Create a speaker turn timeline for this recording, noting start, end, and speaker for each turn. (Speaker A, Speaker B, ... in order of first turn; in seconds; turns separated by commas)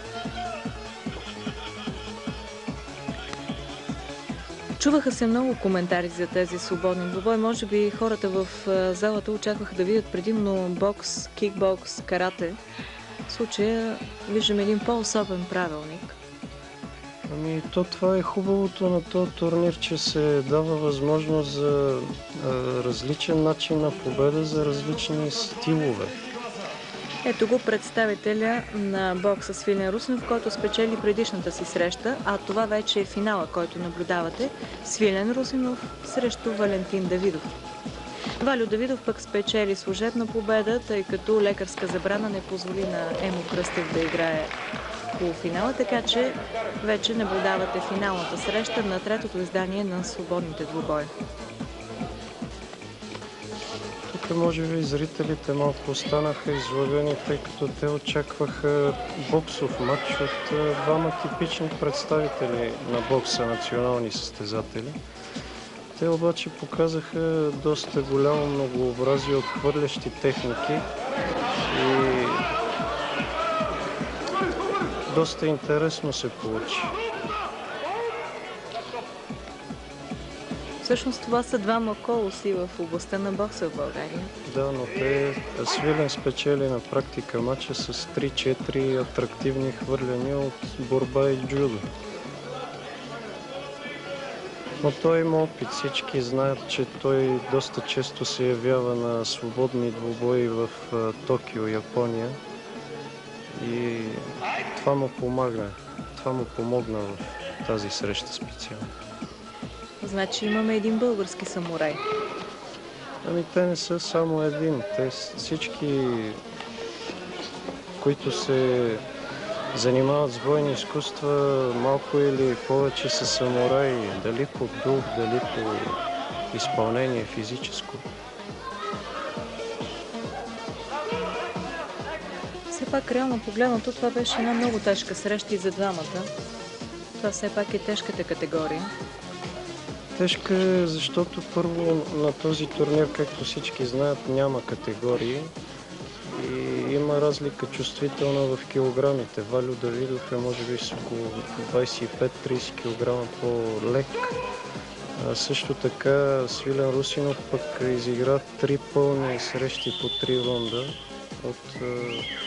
Speaker A: 4.8-12.6, Speaker A: 13.2-16.2, Speaker B: 17.3-26.2, Speaker A: 27.2-37.5, Speaker A: 38.4-44.5, Speaker A: 45.1-51.1, Speaker B: 54.1-65.0, Speaker B: 65.9-70.9, Speaker B: 71.6-72.5, Speaker B: 75.1-77.0, Speaker A: 80.8-84.3, Speaker B: 84.4-91.9, Speaker B: 94.8-102.4, Speaker B: 103.5-108.9, Speaker A: 110.0-112.0, Speaker B: 113.2-116.4, Speaker B: 118.0-119.0, Speaker B: 119.7-128.0, Speaker A: 132.7-136.3, Speaker A: 137.2-138.9, Speaker B: 140.2-145.5, Speaker B: 146.2-154.4, Speaker B: 155.1-162.3